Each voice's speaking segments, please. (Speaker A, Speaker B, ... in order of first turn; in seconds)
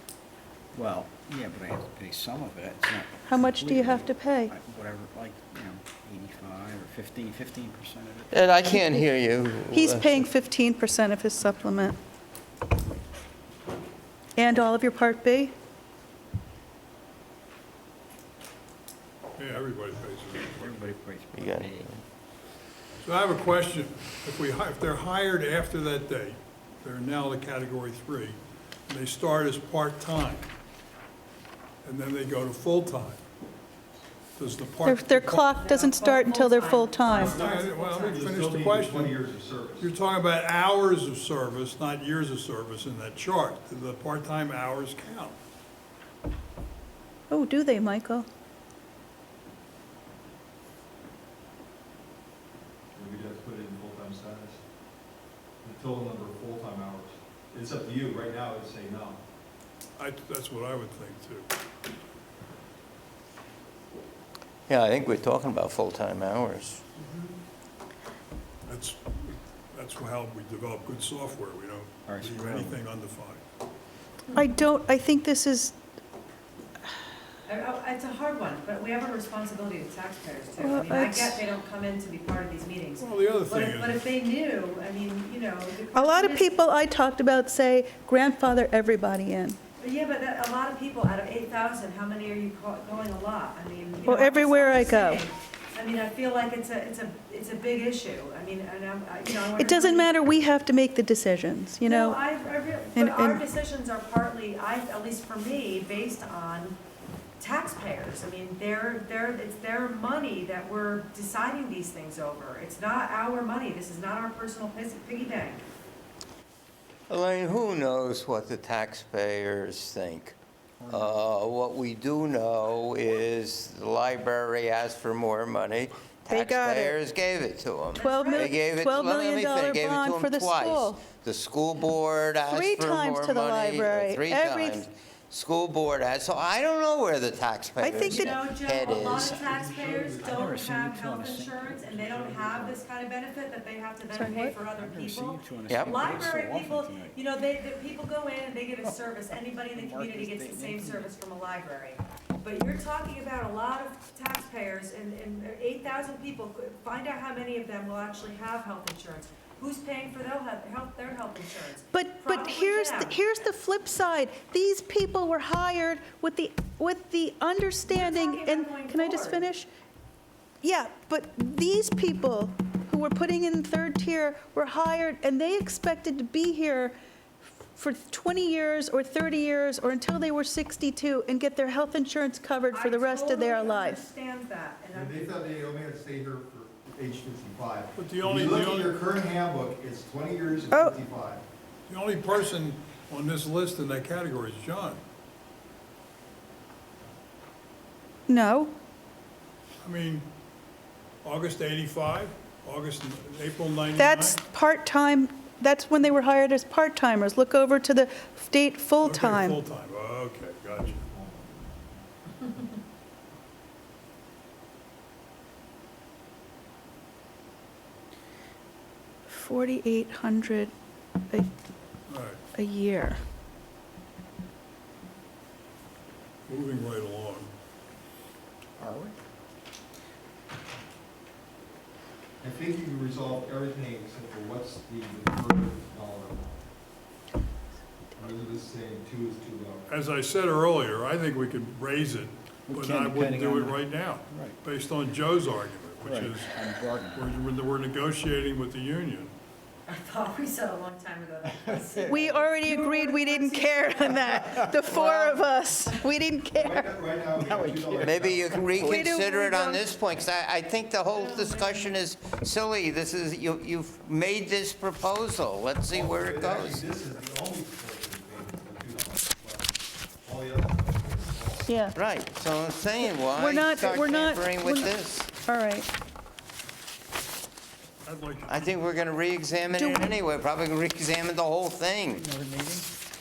Speaker A: 0.7-8.4, 20.5-21.9, 72.1-72.8, 140.2-142.9, 144.6-147.2, 148.8-149.1, 149.7-151.2, 228.8-229.2, 242.7-244.6, 246.0-247.3, 251.5-252.5, 254.5-255.1, 257.4-259.1, 282.1-282.9
Speaker B: 3.3-4.5, 9.7-12.0, 14.4-15.5, 34.9-37.4, 47.3-48.3, 74.3-75.8, 80.6-81.4, 85.9-89.6, 94.1-95.2, 99.5-102.2, 103.0-103.4, 126.3-127.0, 128.0-131.1, 132.5-134.9, 137.8-138.4, 144.1-144.6, 161.9-169.7, 170.6-176.9, 177.7-184.1, 190.7-190.9, 198.3-198.7, 204.0-209.6, 219.3-220.7, 222.5-223.2, 252.1-256.9, 258.9-259.8, 271.7-272.0, 273.2-275.9, 279.8-280.2
Speaker C: 8.3-10.3, 21.3-22.0, 64.7-66.8, 117.1-120.4, 120.9-139.4, 145.7-146.1, 258.0-266.9, 271.9-275.3, 278.5-282.2
Speaker D: 19.4-20.8, 23.0-30.5, 31.8-33.2, 34.4-35.5, 37.1-39.2, 39.8-45.4, 60.0-61.5, 68.7-73.4, 83.0-84.0, 187.9-188.9, 191.9-195.0, 199.8-200.3, 201.2-204.5, 209.0-211.0, 222.1-222.4, 226.5-227.5, 239.9-249.3, 278.1-278.8
Speaker E: 35.5-38.2, 77.5-86.6, 89.8-100.1, 101.8-106.8, 107.4-115.7, 128.0-128.6, 137.9-163.2, 167.9-169.5, 182.7-185.3, 249.9-256.0, 261.1-262.0
Speaker F: 37.2-39.9, 52.9-54.6, 55.6-59.2, 139.2-140.6, 184.9-191.4, 210.8-212.0, 232.4-236.7, 238.2-239.9, 256.6-258.8, 265.9-271.7